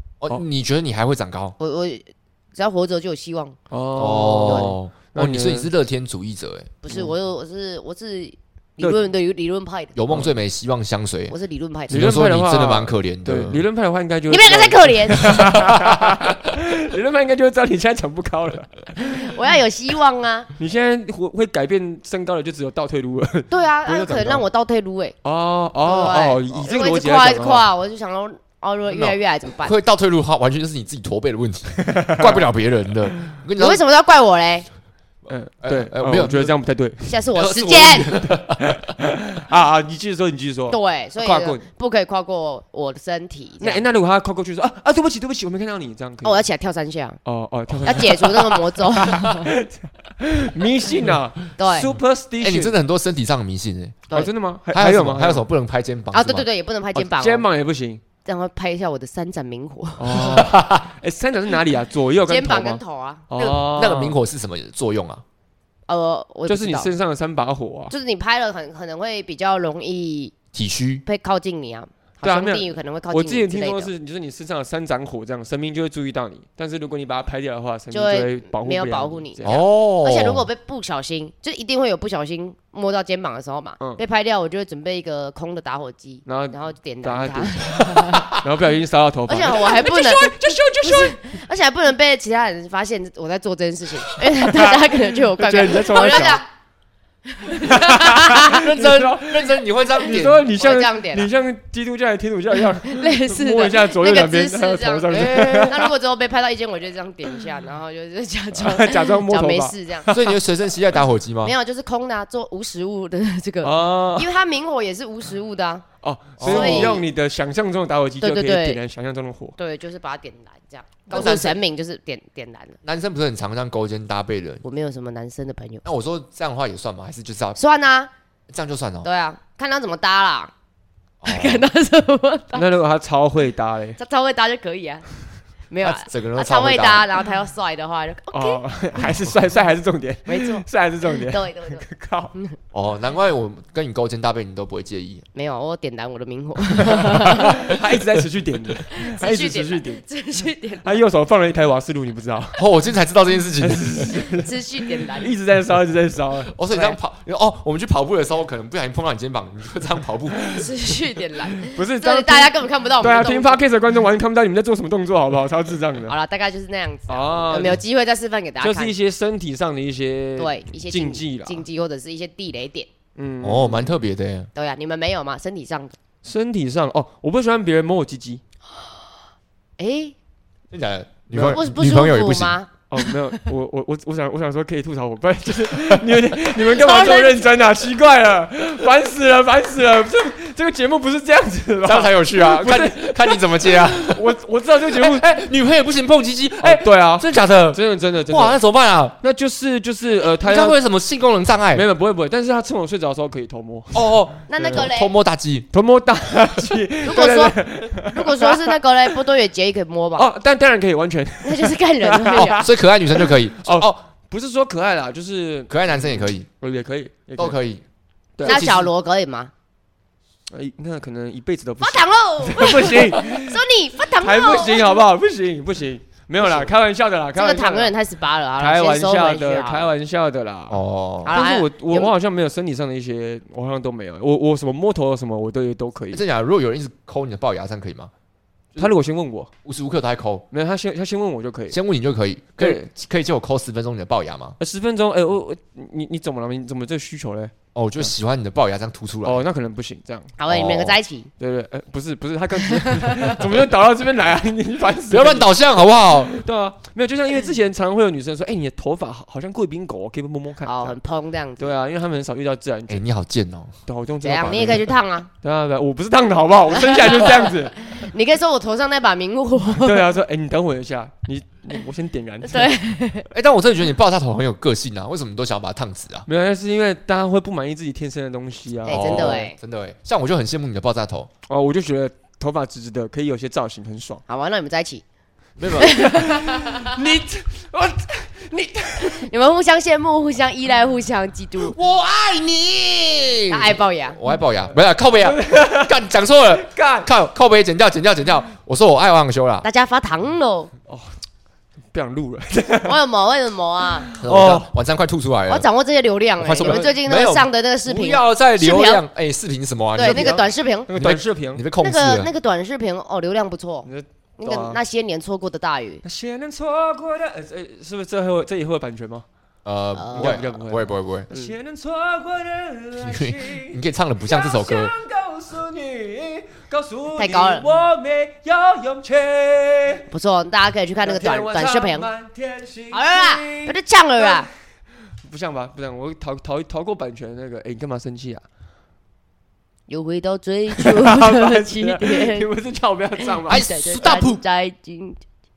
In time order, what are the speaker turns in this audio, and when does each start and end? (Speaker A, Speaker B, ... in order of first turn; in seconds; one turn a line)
Speaker A: 0.2-1.5
Speaker B: 1.6-3.6
Speaker C: 3.7-5.7
Speaker A: 4.0-6.7
Speaker B: 4.2-4.7
Speaker B: 6.8-9.9
Speaker A: 9.9-11.3
Speaker B: 11.3-12.0
Speaker A: 11.9-13.6
Speaker C: 11.9-19.3
Speaker B: 14.3-15.5
Speaker A: 15.5-16.2
Speaker B: 19.0-20.5
Speaker C: 20.6-24.4
Speaker B: 23.5-25.2
Speaker C: 25.2-27.7
Speaker B: 25.8-29.7
Speaker A: 28.9-33.8
Speaker C: 31.9-32.5
Speaker B: 33.6-34.7
Speaker C: 35.3-37.2
Speaker A: 35.6-36.5
Speaker B: 37.1-38.3
Speaker A: 37.4-38.7
Speaker C: 38.6-41.6
Speaker B: 40.7-43.8
Speaker C: 43.6-46.4
Speaker B: 46.2-47.2
Speaker C: 47.2-52.8
Speaker B: 47.8-49.5
Speaker B: 51.6-51.9
Speaker A: 52.4-54.0
Speaker C: 54.1-55.5
Speaker A: 54.7-56.5
Speaker B: 56.1-57.4
Speaker C: 56.9-58.0
Speaker B: 58.2-60.5
Speaker C: 60.0-64.2
Speaker A: 60.3-60.9
Speaker B: 62.2-63.3
Speaker A: 63.4-65.2
Speaker B: 65.9-66.9
Speaker C: 66.5-67.9
Speaker B: 67.9-70.3
Speaker A: 70.5-71.0
Speaker B: 71.0-73.9
Speaker C: 72.2-79.6
Speaker B: 77.9-88.3
Speaker A: 79.4-80.5
Speaker C: 86.2-91.2
Speaker A: 87.8-88.2
Speaker B: 89.3-96.5
Speaker C: 94.2-96.4
Speaker B: 97.3-98.6
Speaker C: 97.6-105.9
Speaker A: 98.3-100.5
Speaker B: 100.6-101.3
Speaker B: 102.7-110.1
Speaker A: 105.2-105.7
Speaker C: 108.5-110.4
Speaker A: 110.1-111.5
Speaker B: 111.4-115.9
Speaker C: 113.6-114.3
Speaker C: 116.0-119.5
Speaker A: 116.4-117.0
Speaker B: 116.4-117.0
Speaker B: 118.2-118.8
Speaker B: 119.6-122.8
Speaker A: 121.1-121.6
Speaker A: 122.8-124.6
Speaker B: 124.6-125.8
Speaker A: 125.8-127.6
Speaker B: 127.5-128.1
Speaker A: 128.5-129.1
Speaker B: 129.0-130.5
Speaker A: 131.2-131.7
Speaker B: 131.2-132.7
Speaker C: 132.5-134.0
Speaker B: 134.0-135.1
Speaker B: 135.7-138.6
Speaker A: 135.8-137.1
Speaker C: 138.3-142.3
Speaker B: 140.3-142.6
Speaker A: 142.7-145.2
Speaker B: 145.3-147.6
Speaker C: 146.8-150.0
Speaker A: 147.3-147.7
Speaker B: 148.9-151.0
Speaker C: 150.8-152.6
Speaker A: 152.6-154.1
Speaker C: 153.6-156.9
Speaker B: 154.2-155.3
Speaker A: 156.5-160.6
Speaker B: 160.5-163.6
Speaker C: 161.6-166.1
Speaker B: 166.1-168.9
Speaker C: 167.1-167.8
Speaker C: 168.6-171.6
Speaker B: 170.4-172.9
Speaker C: 173.2-173.9
Speaker A: 173.4-174.5
Speaker B: 174.5-175.9
Speaker C: 176.2-178.4
Speaker B: 179.8-180.1
Speaker A: 180.7-182.6
Speaker C: 181.3-181.6
Speaker B: 181.3-183.4
Speaker C: 182.9-195.2
Speaker B: 186.6-187.5
Speaker A: 191.8-194.3
Speaker A: 194.8-199.2
Speaker C: 196.6-198.6
Speaker C: 199.2-200.8
Speaker A: 200.4-201.8
Speaker C: 201.7-204.9
Speaker A: 203.9-205.7
Speaker B: 204.5-205.1
Speaker C: 205.7-209.2
Speaker B: 207.0-210.3
Speaker C: 210.2-217.6
Speaker B: 211.4-212.7
Speaker A: 212.3-214.0
Speaker A: 215.7-216.5
Speaker A: 217.4-217.8
Speaker C: 218.4-218.7
Speaker A: 218.4-218.9
Speaker B: 218.4-219.5
Speaker C: 220.5-223.6
Speaker B: 221.8-224.9
Speaker C: 224.2-227.9
Speaker B: 227.3-229.9
Speaker C: 228.6-236.2
Speaker A: 230.7-231.4
Speaker B: 231.2-232.1
Speaker A: 236.1-238.1
Speaker C: 238.7-239.5
Speaker A: 239.6-240.4
Speaker C: 240.5-241.8
Speaker A: 241.7-244.6
Speaker C: 242.6-242.9
Speaker C: 244.6-248.1
Speaker A: 247.7-249.4
Speaker C: 249.2-250.4
Speaker B: 250.4-251.3
Speaker A: 250.5-250.9
Speaker C: 251.4-261.0
Speaker B: 253.0-253.3
Speaker A: 255.1-256.4
Speaker B: 260.6-261.7
Speaker C: 261.6-263.0
Speaker A: 262.9-263.8
Speaker C: 263.9-267.8
Speaker B: 264.2-265.3
Speaker B: 266.8-270.1
Speaker C: 269.8-272.7
Speaker B: 272.4-273.3
Speaker A: 273.3-276.2
Speaker C: 276.2-279.5
Speaker B: 278.9-279.6
Speaker A: 278.9-281.3
Speaker C: 281.5-284.2
Speaker B: 284.3-285.0
Speaker A: 285.6-286.1
Speaker B: 285.8-287.0
Speaker C: 285.8-289.3
Speaker B: 289.0-291.8
Speaker A: 291.6-299.6
Speaker B: 293.5-294.2
Speaker C: 295.2-296.0
Speaker C: 296.5-297.1
Speaker B: 299.6-300.7
Speaker C: 300.9-301.1
Speaker C: 301.9-303.0
Speaker B: 302.8-304.1
Speaker C: 304.0-304.7
Speaker A: 304.2-305.7
Speaker B: 305.5-309.0
Speaker A: 306.4-310.4
Speaker C: 306.6-306.9
Speaker B: 310.0-310.9
Speaker C: 310.0-311.6
Speaker A: 310.9-312.3
Speaker B: 311.8-316.0
Speaker C: 313.8-314.8
Speaker C: 316.0-319.2
Speaker A: 319.6-321.3
Speaker B: 320.0-320.4
Speaker C: 320.1-330.1
Speaker A: 323.0-324.9
Speaker B: 327.1-327.7
Speaker B: 330.1-332.1
Speaker C: 331.0-334.5
Speaker B: 332.9-334.5
Speaker C: 335.2-338.4
Speaker B: 339.9-342.5
Speaker C: 340.7-343.6
Speaker B: 343.2-345.2
Speaker A: 343.5-344.4